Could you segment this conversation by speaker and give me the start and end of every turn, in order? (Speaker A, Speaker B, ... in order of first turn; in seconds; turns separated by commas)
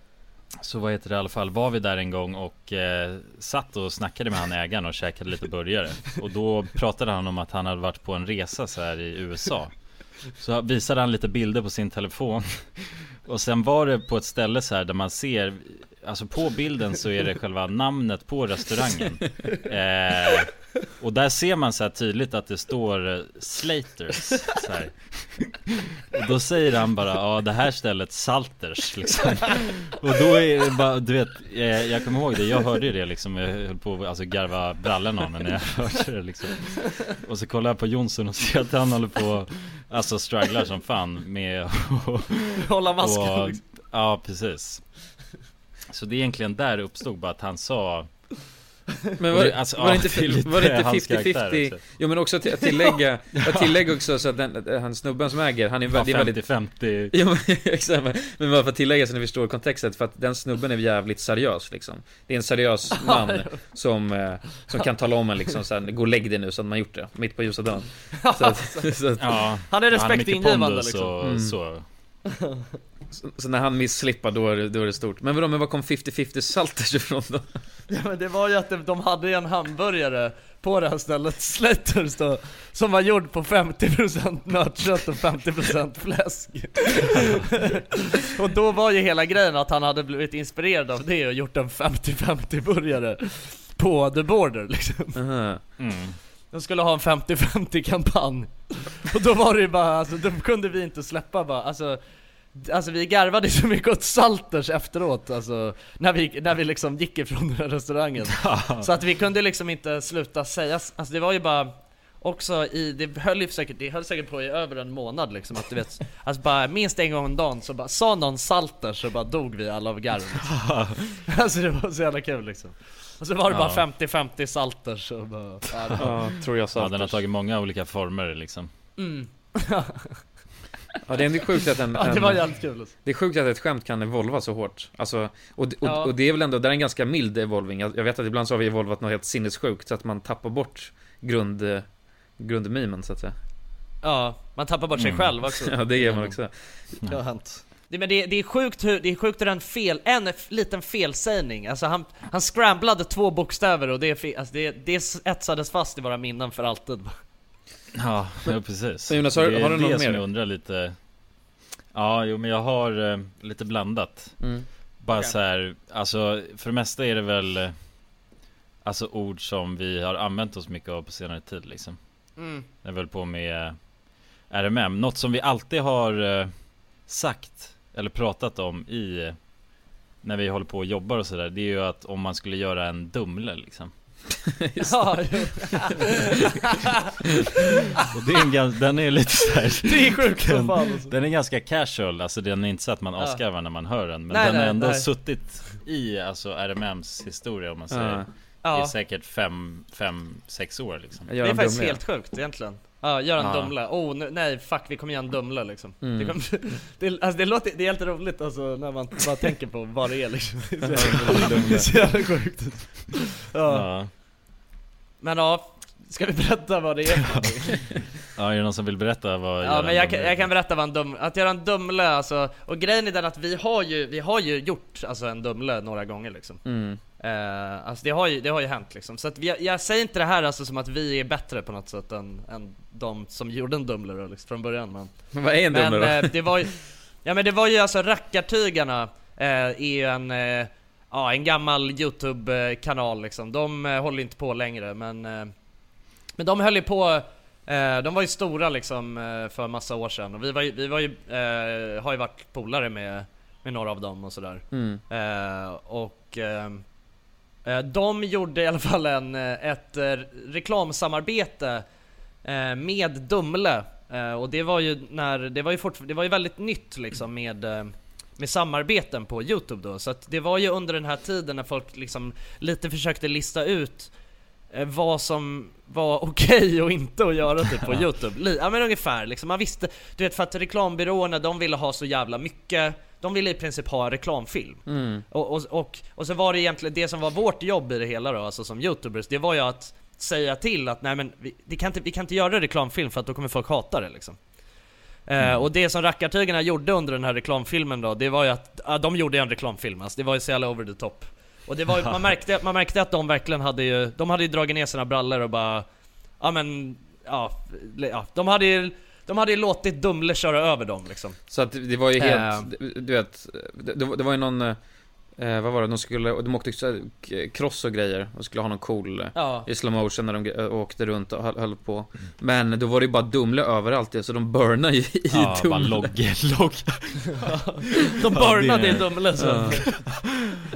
Speaker A: 0.6-25.6, Speaker A: 26.1-44.9, Speaker B: 42.6-43.6, Speaker A: 45.9-48.3, Speaker C: 49.2-69.5, Speaker A: 49.3-52.0, Speaker A: 53.3-53.7, Speaker A: 55.9-57.1, Speaker B: 63.0-63.6, Speaker B: 68.2-71.2, Speaker A: 69.2-71.9, Speaker C: 71.2-71.6, Speaker B: 72.4-72.7, Speaker C: 73.1-77.6, Speaker B: 77.9-95.2, Speaker C: 95.2-95.6, Speaker A: 95.8-96.2, Speaker B: 96.5-102.0, Speaker B: 102.5-120.7, Speaker A: 108.3-108.9, Speaker A: 120.5-121.0, Speaker B: 121.3-126.2, Speaker A: 123.5-123.8, Speaker C: 126.0-127.2, Speaker A: 126.8-128.7, Speaker B: 129.0-130.2, Speaker C: 131.1-143.3, Speaker B: 131.9-132.9, Speaker B: 135.8-136.1, Speaker B: 144.0-146.4, Speaker A: 144.9-145.3, Speaker C: 145.4-146.6, Speaker B: 147.0-157.2, Speaker A: 157.9-161.0, Speaker C: 159.1-160.2, Speaker A: 161.9-164.5, Speaker C: 164.4-164.7, Speaker A: 165.0-167.8, Speaker B: 165.1-165.4, Speaker A: 168.8-172.0, Speaker B: 172.4-172.7, Speaker A: 172.7-173.8, Speaker A: 174.5-176.5, Speaker A: 177.0-179.4, Speaker A: 180.2-183.9, Speaker C: 184.7-185.2, Speaker B: 184.8-186.8, Speaker A: 188.1-201.3, Speaker B: 189.8-191.1, Speaker B: 193.2-193.4, Speaker B: 194.3-195.4, Speaker C: 197.9-198.3, Speaker B: 198.6-198.9, Speaker C: 201.3-202.0, Speaker B: 201.4-213.9, Speaker A: 203.4-203.7, Speaker C: 206.0-206.4, Speaker C: 210.9-212.0, Speaker A: 213.7-214.1, Speaker B: 215.2-218.1, Speaker A: 218.4-220.6, Speaker B: 219.6-226.7, Speaker C: 226.6-227.0, Speaker B: 227.2-245.5, Speaker C: 235.3-236.5, Speaker B: 246.4-256.9, Speaker C: 254.7-255.0, Speaker B: 257.6-261.9, Speaker B: 262.4-274.1, Speaker B: 274.7-294.4, Speaker C: 284.9-285.3, Speaker B: 295.3-305.9, Speaker A: 295.4-295.7, Speaker B: 306.4-311.4, Speaker C: 311.5-314.8, Speaker B: 312.2-312.7, Speaker C: 315.4-326.2, Speaker B: 319.4-319.7, Speaker A: 325.3-327.4, Speaker B: 327.4-330.0, Speaker A: 328.3-330.2, Speaker C: 329.4-329.8